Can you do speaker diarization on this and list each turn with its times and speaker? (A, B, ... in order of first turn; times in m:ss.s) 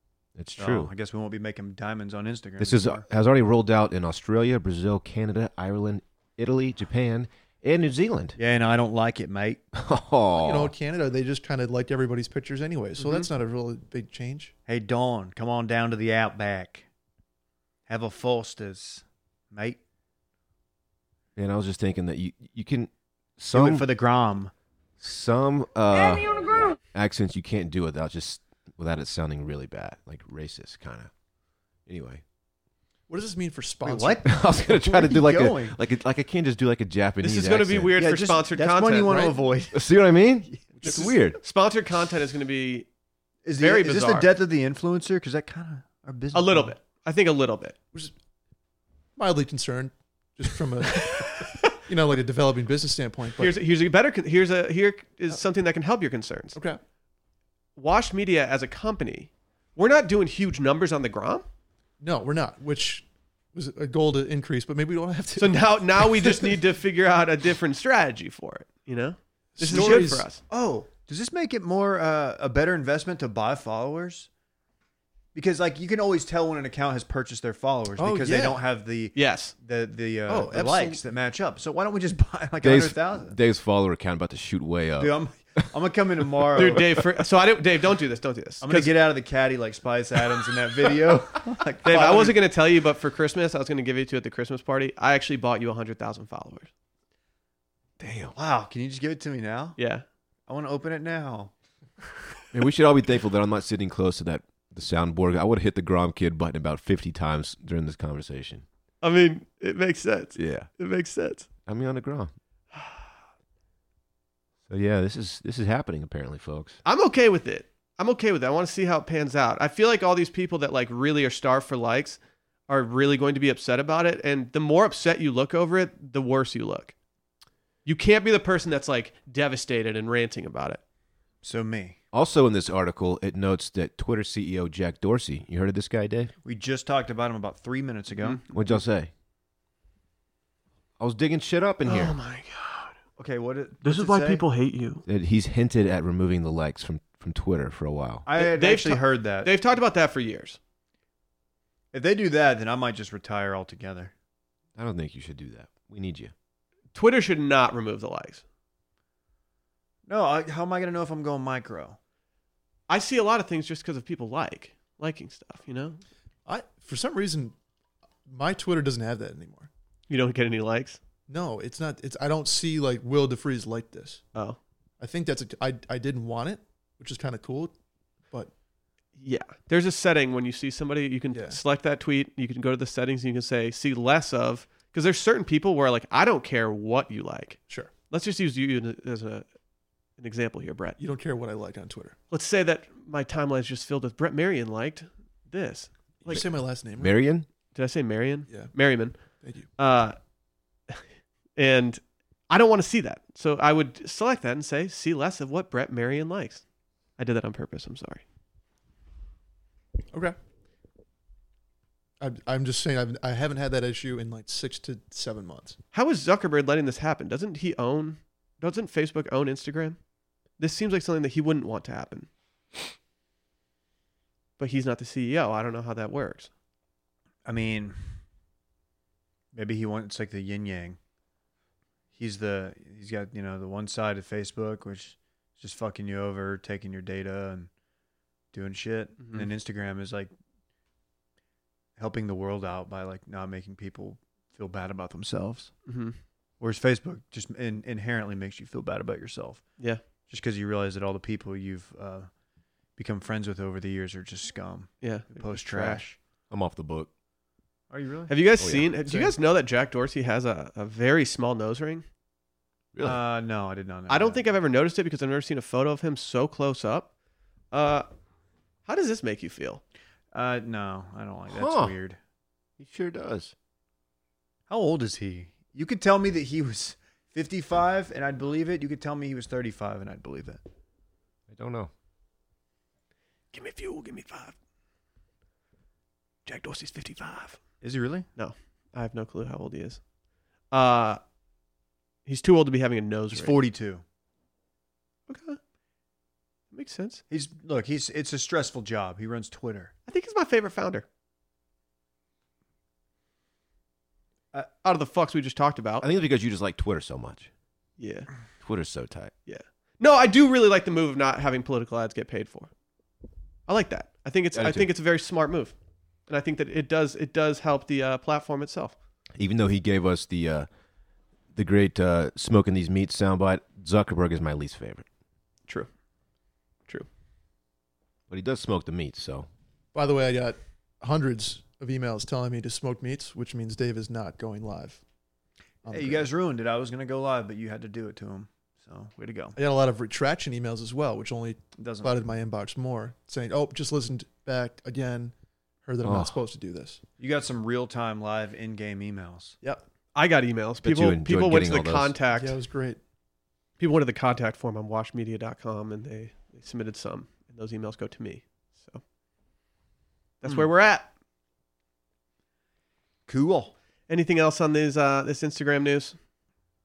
0:00.4-0:00.9 A
0:00.6-0:03.0 B
0:02.6-0:08.4 A
0:08.4-0:09.6 B
0:09.7-0:10.7 A
0:10.4-0:14.5 C
0:14.7-0:16.8 B
0:17.9-0:19.8 B
0:21.4-0:23.8 A
0:23.5-0:24.5 B
0:25.0-0:26.3 A
0:26.9-0:31.1 A
0:31.9-0:32.2 A
0:33.1-0:34.3 C
0:33.8-0:35.8 B
0:34.2-0:38.0 A
0:37.2-0:39.3 D
0:38.0-0:39.9 B
0:39.7-0:41.4 A
0:40.8-0:42.9 D
0:43.4-0:46.7 B
0:43.6-0:44.3 D
0:46.3-0:47.8 D
0:49.2-0:53.6 C
0:50.9-0:51.8 D
0:53.4-0:56.6 D
0:56.5-0:56.8 C
0:57.8-1:01.4 D
1:02.0-1:06.6 C
1:05.4-1:10.4 D
1:09.6-1:10.3 C
1:09.7-1:14.3 B
1:15.3-1:23.4 B
1:18.0-1:18.6 C
1:19.1-1:19.5 D
1:20.3-1:21.0 C
1:22.6-1:25.1 A
1:25.0-1:26.9 B
1:26.6-1:28.9 D
1:28.6-1:32.4 B
1:31.8-1:36.7 D
1:38.0-1:38.3 A
1:38.3-1:39.8 B
1:39.8-1:40.0 D
1:40.5-1:41.5 B
1:42.5-1:48.6 A
1:49.0-1:51.5 D
1:50.4-1:50.7 A
1:51.6-1:52.3 A
1:54.7-1:56.8 A
1:56.8-2:06.9 D
2:07.8-2:10.8 D
2:11.4-2:12.0 B
2:12.1-2:16.3 A
2:16.4-2:18.4 B
2:18.5-2:19.1 A
2:21.0-2:22.2 A
2:21.8-2:22.9 D
2:23.2-2:24.4 B
2:23.8-2:25.0 D
2:25.1-2:28.2 A
2:28.2-2:29.5 B
2:28.4-2:30.6 D
2:31.9-2:34.1 B
2:34.8-2:36.3 A
2:36.9-2:38.4 D
2:40.1-2:42.0 B
2:42.9-2:46.0 D
2:46.4-2:47.5 C
2:48.3-2:49.7 C
2:50.1-2:51.0 D
2:51.3-2:54.2 C
2:55.0-2:57.7 C
2:59.2-3:09.4 D
3:01.3-3:01.6 C
3:10.2-3:11.0 D
3:11.0-3:12.2 C
3:12.3-3:16.4 D
3:16.2-3:17.2 C
3:17.0-3:17.4 A
3:17.7-3:19.2 D
3:19.4-3:19.7 C
3:19.8-3:20.2 D
3:21.6-3:26.6 D
3:27.2-3:28.2 D
3:32.2-3:35.8 C
3:35.9-3:40.0 D
3:40.6-3:42.3 D
3:44.6-3:46.5 D
3:47.4-3:48.0 B
3:49.5-3:51.0 B
3:52.1-3:57.7 B
3:58.5-4:00.3 B
3:59.2-3:59.5 D
4:02.0-4:05.7 B
4:05.9-4:06.2 D
4:06.6-4:09.6 B
4:10.3-4:12.3 B
4:13.0-4:16.2 B
4:15.0-4:16.0 D
4:16.5-4:17.1 A
4:17.9-4:18.3 B
4:18.3-4:22.0 D
4:18.6-4:18.9 A
4:19.0-4:19.3 C
4:22.9-4:23.2 A
4:23.0-4:24.4 B
4:24.1-4:27.1 D
4:27.7-4:28.1 D
4:28.8-4:29.8 D
4:30.3-4:32.2 B
4:31.5-4:31.9 A
4:32.8-4:33.5 A
4:34.7-4:40.6 B
4:41.5-4:41.9 A
4:43.5-4:44.5 D
4:46.4-4:47.6 D
4:47.8-4:48.3 B
4:48.4-4:50.0 D
4:50.7-4:51.2 D
4:52.2-4:53.6 D
4:53.3-4:54.0 B
4:55.3-4:55.6 D
4:56.7-4:57.2 D
4:57.3-4:59.9 B
5:00.1-5:01.0 D
5:04.8-5:06.1 D
5:06.0-5:07.5 A
5:08.0-5:08.3 D
5:08.6-5:09.3 A
5:09.4-5:12.7 D
5:13.7-5:15.7 D
5:14.5-5:14.9 A
5:16.3-5:18.9 D
5:19.3-5:20.7 A
5:21.5-5:25.0 A
5:28.3-5:29.5 A
5:29.9-5:35.0 C
5:35.8-5:36.3 C
5:35.9-5:39.6 B
5:39.6-5:45.3 C
5:41.8-5:42.2 B
5:45.8-5:47.0 C
5:46.0-5:46.4 A
5:47.2-5:49.6 B
5:50.1-5:52.5 D
5:50.8-5:52.1 A
5:52.3-5:53.0 C
5:53.8-5:59.0 D
6:00.4-6:01.1 D
6:03.3-6:03.7 B
6:04.1-6:06.2 D